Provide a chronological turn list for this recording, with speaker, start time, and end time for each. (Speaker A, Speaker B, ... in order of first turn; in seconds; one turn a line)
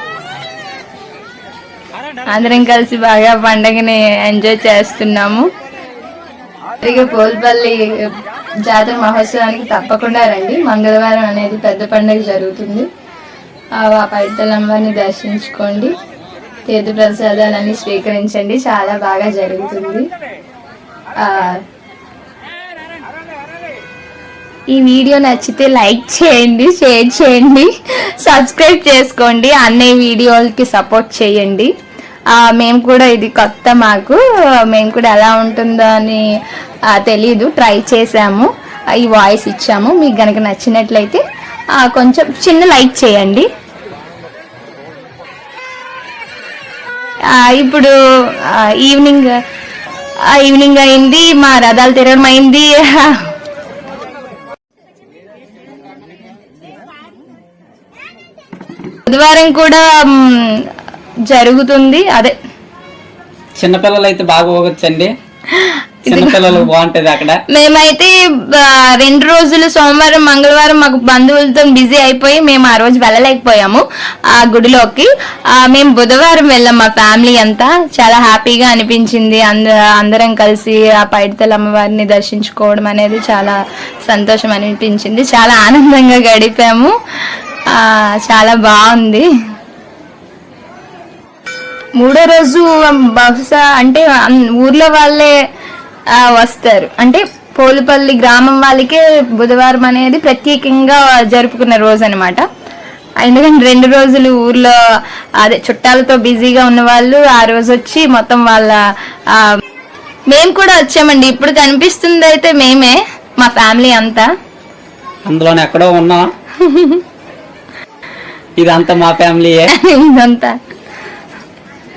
Speaker A: 2.3-5.5
Speaker A: 6.8-7.8
Speaker A: 8.7-12.9
Speaker A: 13.8-15.9
Speaker A: 16.7-20.0
Speaker A: 21.2-21.6
Speaker A: 24.7-27.7
Speaker A: 28.2-31.7
Speaker A: 32.3-36.2
Speaker A: 36.9-41.2
Speaker A: 41.8-43.5
Speaker A: 47.3-47.9
Speaker A: 48.6-49.4
Speaker A: 50.4-53.2
Speaker A: 59.1-60.6
Speaker A: 61.3-62.4
Speaker B: 63.6-65.1
Speaker A: 65.5-66.6
Speaker B: 66.1-67.4
Speaker A: 67.5-73.8
Speaker A: 74.3-83.6
Speaker A: 84.1-86.9
Speaker A: 87.8-89.2
Speaker A: 92.0-95.3
Speaker A: 96.2-102.5
Speaker A: 103.2-104.8
Speaker A: 105.4-108.8
Speaker A: 110.3-114.3
Speaker B: 115.3-116.3
Speaker A: 116.6-117.0
Speaker B: 118.6-119.7
Speaker A: 119.7-120.6